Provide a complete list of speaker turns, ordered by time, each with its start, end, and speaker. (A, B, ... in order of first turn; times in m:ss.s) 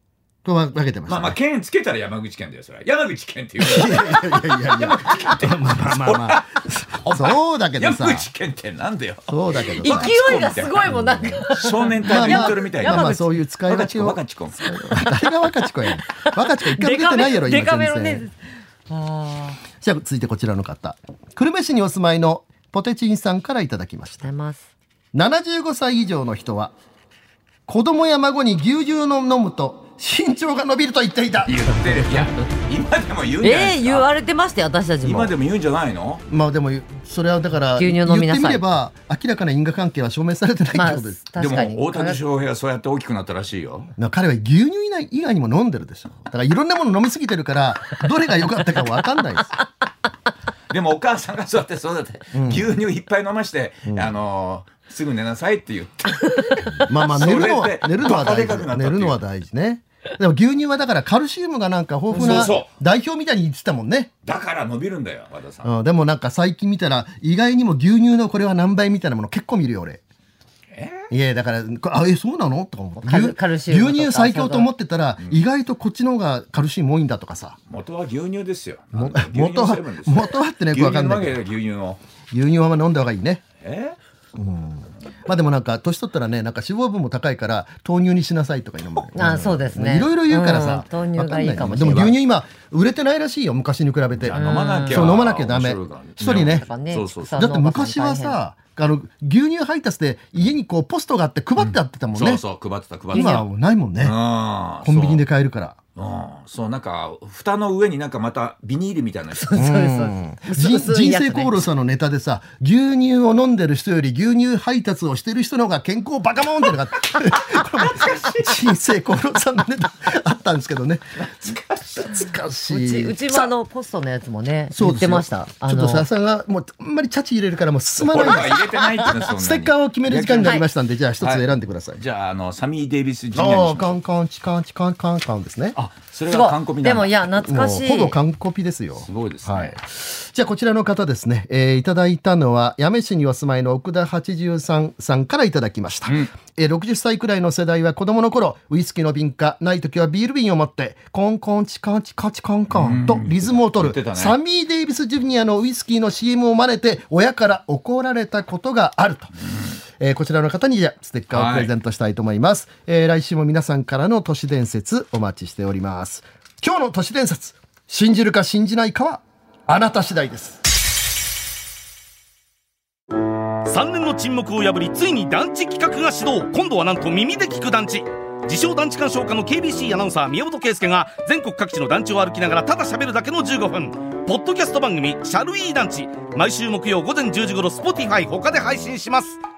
0:00.4-0:01.4 A
0:01.0-0:10.9 B
0:03.6-0:08.3 A
0:09.3-0:10.2 A
0:09.8-0:13.3 C
0:10.8-0:11.5 A
0:11.5-0:14.7 B
0:12.0-0:18.3 A
0:14.8-0:15.3 C
0:15.8-0:19.6 C
0:19.8-0:24.3 A
0:24.2-0:24.7 C
0:25.1-0:26.7 A
0:27.7-0:31.7 A
0:31.4-0:34.1 B
0:33.4-0:35.3 C
0:35.0-0:36.2 B
0:36.3-0:41.2 A
0:37.7-0:38.6 C
0:40.7-0:42.2 C
0:41.4-0:43.9 B
0:44.0-0:49.6 A
0:50.7-0:59.2 B
0:52.3-0:52.7 A
0:56.9-1:04.1 A
1:02.1-1:02.7 B
1:02.2-1:02.4 C
1:04.2-1:05.7 B
1:05.6-1:10.0 A
1:10.7-1:11.0 B
1:11.1-1:17.6 A
1:13.0-1:14.7 C
1:15.2-1:15.4 B
1:17.7-1:22.0 B
1:18.9-1:21.4 A
1:22.3-1:23.4 A
1:23.6-1:24.0 B
1:24.4-1:36.7 A
1:29.1-1:32.2 C
1:34.2-1:37.5 B
1:34.3-1:35.2 C
1:36.2-1:38.4 C
1:37.3-1:42.4 A
1:41.6-1:43.5 B
1:43.1-1:43.4 C
1:43.1-1:44.1 A
1:44.0-1:45.2 B
1:44.8-1:45.8 A
1:45.9-1:49.7 B
1:49.4-1:51.6 C
1:49.6-2:03.5 A
1:57.6-1:58.7 B
2:01.3-2:02.2 B
2:02.7-2:06.1 C
2:04.7-2:08.6 A
2:08.0-2:10.6 B
2:09.3-2:12.0 A
2:11.2-2:14.0 B
2:13.3-2:15.8 A
2:15.7-2:17.2 B
2:16.3-2:18.2 C
2:17.3-2:39.3 A
2:19.0-2:19.8 B
2:26.1-2:26.3 B
2:32.7-2:34.4 B
2:40.0-2:50.6 A
2:41.3-2:41.7 B
2:53.6-3:09.4 D